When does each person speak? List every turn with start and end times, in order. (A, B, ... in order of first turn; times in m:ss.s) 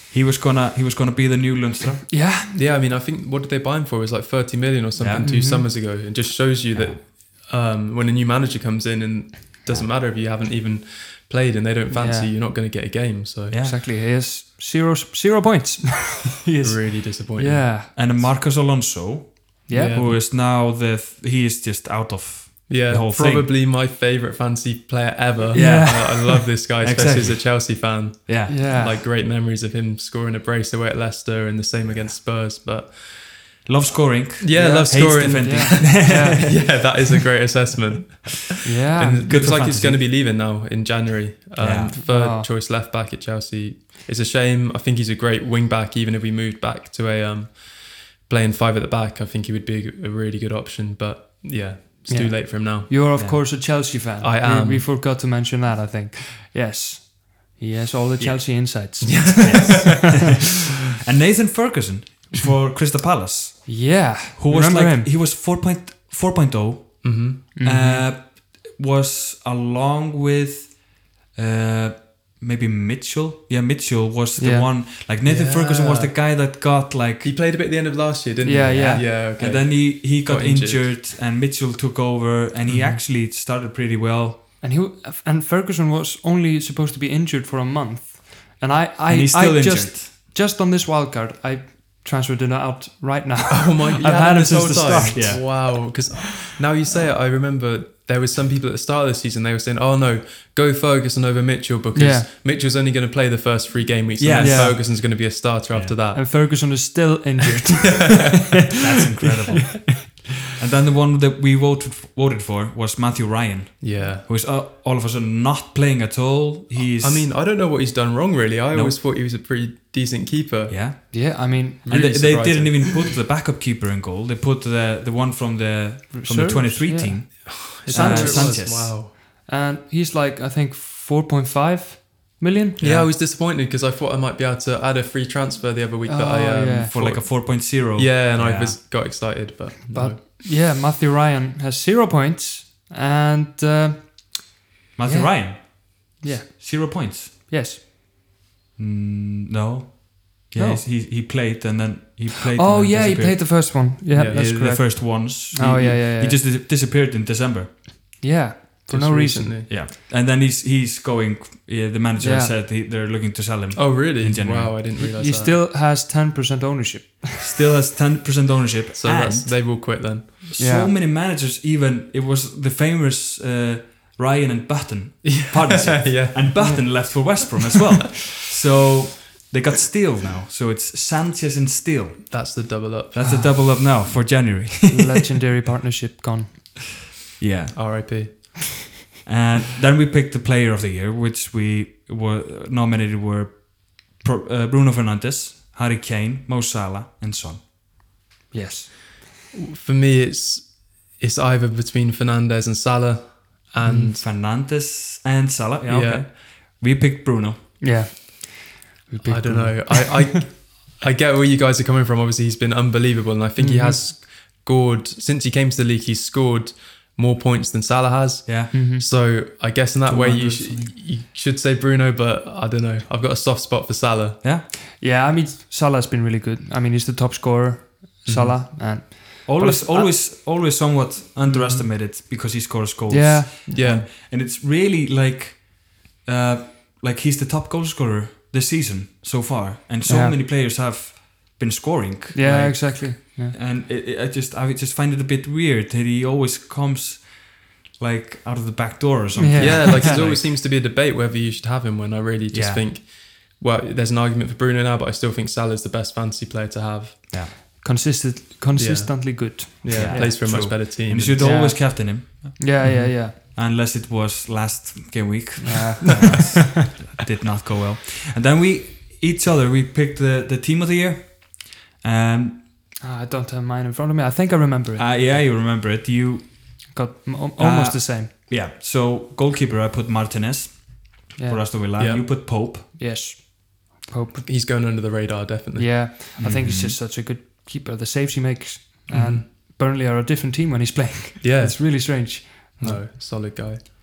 0:00.1-0:02.1 A
0:02.1-0:02.5 B
0:02.5-0:13.6 C
0:05.0-0:05.3 A
0:05.2-0:05.7 B
0:06.7-0:07.0 A
0:11.9-0:12.3 B
0:13.5-0:13.8 A
0:13.6-0:18.2 B
0:16.6-0:18.0 C
0:17.9-0:23.5 A
0:19.7-0:20.0 B
0:19.7-0:20.2 C
0:22.7-0:33.7 C
0:25.5-0:26.4 B
0:25.5-0:28.6 A
0:28.5-0:29.0 B
0:33.6-0:36.8 A
0:34.4-0:54.9 C
0:34.5-0:36.8 B
0:38.6-0:39.2 B
0:39.2-0:40.0 A
0:41.6-0:41.9 A
0:41.9-0:42.5 B
0:52.1-1:00.0 B
0:53.2-0:53.4 A
0:58.8-1:00.2 C
0:59.4-1:00.5 A
1:01.0-1:17.3 A
1:03.6-1:05.1 B
1:07.0-1:07.4 C
1:07.5-1:08.1 B
1:14.4-1:14.7 B
1:15.2-1:16.1 C
1:17.2-1:21.0 C
1:18.4-1:19.1 B
1:18.6-1:24.4 A
1:22.7-1:23.0 C
1:24.6-1:35.7 B
1:29.1-1:30.1 A
1:33.5-1:46.4 C
1:35.1-1:36.0 A
1:41.9-1:42.3 B
1:44.2-1:45.0 A
1:44.4-1:44.8 B
1:45.7-1:46.0 A
1:46.1-1:48.6 B
1:48.0-1:48.3 C
1:48.8-1:57.3 A
1:49.2-1:50.1 B
1:53.8-1:54.2 C
1:57.0-2:01.1 C
1:58.7-1:59.0 A
2:00.7-2:01.2 A
2:01.1-2:01.8 B
2:01.8-2:09.0 A
2:01.8-2:02.9 C
2:06.1-2:12.8 B
2:07.5-2:09.1 C
2:12.8-2:20.2 C
2:12.8-2:13.1 A
2:16.0-2:16.9 B
2:16.9-2:18.8 A
2:19.9-2:24.5 B
2:25.0-2:27.3 A
2:25.0-2:27.8 B
2:28.8-2:37.7 A
2:30.5-2:30.8 B
2:32.5-2:36.4 B
2:34.1-2:34.4 C
2:38.2-2:39.6 B
2:38.9-2:39.7 C
2:39.7-2:44.8 A
2:42.2-2:42.5 B
2:43.7-2:45.6 C
2:45.0-2:47.4 B
2:47.4-2:49.6 A
2:48.9-2:50.5 C
2:50.4-3:05.0 A
2:50.6-2:50.9 B
2:55.2-2:56.8 C
2:56.6-2:57.4 B
3:02.3-3:03.4 C
3:03.2-3:03.6 B
3:04.9-3:06.9 B
3:07.4-3:08.1 A
3:07.7-3:08.3 C
3:09.2-3:17.6 A
3:18.5-3:18.9 B
3:19.5-3:24.2 C
3:23.8-3:24.1 B
3:24.1-3:27.8 A
3:25.8-3:26.3 C
3:27.8-3:30.4 B
3:29.2-3:44.4 C
3:33.6-3:34.0 B
3:38.4-3:38.7 A
3:38.7-3:39.0 B
3:40.0-3:40.9 A
3:44.9-3:50.2 B
3:48.2-3:48.6 C
3:49.4-4:10.4 A
3:51.5-3:51.8 C
3:51.5-3:51.8 B
3:53.1-3:53.5 B
3:53.7-3:54.1 C
4:00.0-4:00.4 B
4:02.3-4:03.5 B
4:09.4-4:10.3 B
4:09.5-4:17.3 C
4:12.5-4:12.8 A
4:17.8-4:23.4 B
4:18.8-4:21.5 C
4:19.9-4:32.6 A
4:22.8-4:23.1 C
4:25.6-4:26.6 B
4:33.0-4:35.1 B
4:35.0-4:36.9 A
4:36.9-4:38.3 B
4:37.6-4:42.8 A
4:41.4-4:41.7 B
4:42.0-4:42.3 C
4:42.9-4:44.5 B
4:44.4-4:46.1 C
4:45.7-4:53.0 B
4:46.4-4:47.0 A
4:49.1-4:49.4 C
4:51.4-4:53.8 C